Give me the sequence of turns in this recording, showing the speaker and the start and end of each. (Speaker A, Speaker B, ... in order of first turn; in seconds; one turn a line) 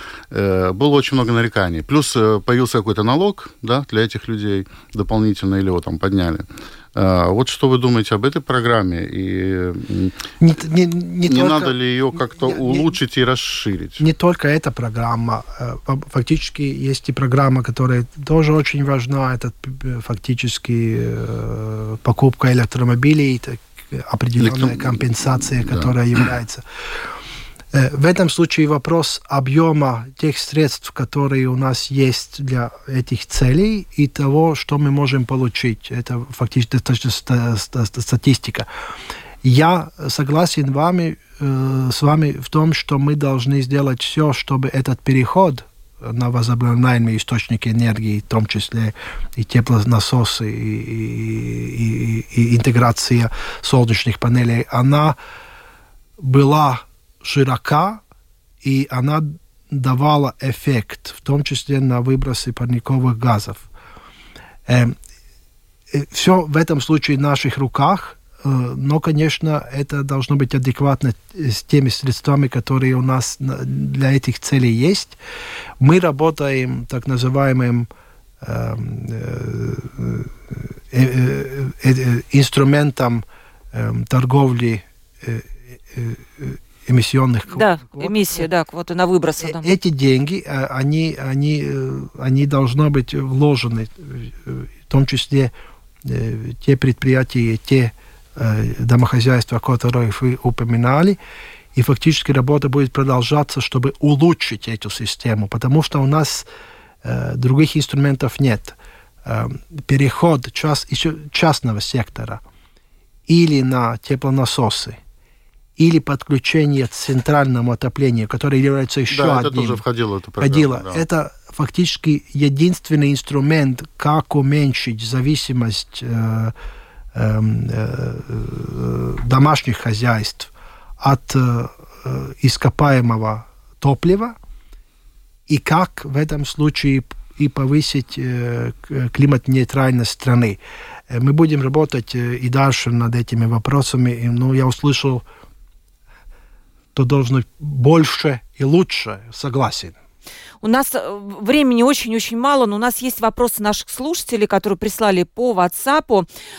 Speaker A: 0.3-10.2
Speaker B: 10.4-11.7
Speaker A: 11.2-14.0
Speaker B: 12.3-12.9
Speaker B: 14.0-27.1
Speaker A: 24.4-25.1
Speaker A: 25.6-25.9
Speaker B: 27.7-38.7
Speaker B: 39.4-55.2
Speaker B: 56.2-58.0
Speaker B: 58.6-63.7
Speaker B: 64.7-65.0
Speaker B: 65.9-75.2
Speaker B: 75.8-77.9
Speaker B: 78.4-88.5
Speaker C: 87.5-89.7
Speaker B: 89.4-95.5
Speaker B: 96.0-101.2
Speaker B: 101.8-106.5
Speaker B: 107.0-112.4
Speaker B: 113.3-115.0
Speaker B: 115.8-119.8
Speaker A: 119.1-121.0
Speaker B: 120.4-126.5
Speaker B: 127.1-134.4
Speaker B: 135.5-140.6
Speaker B: 141.1-145.2
Speaker B: 146.9-149.9
Speaker C: 150.6-156.3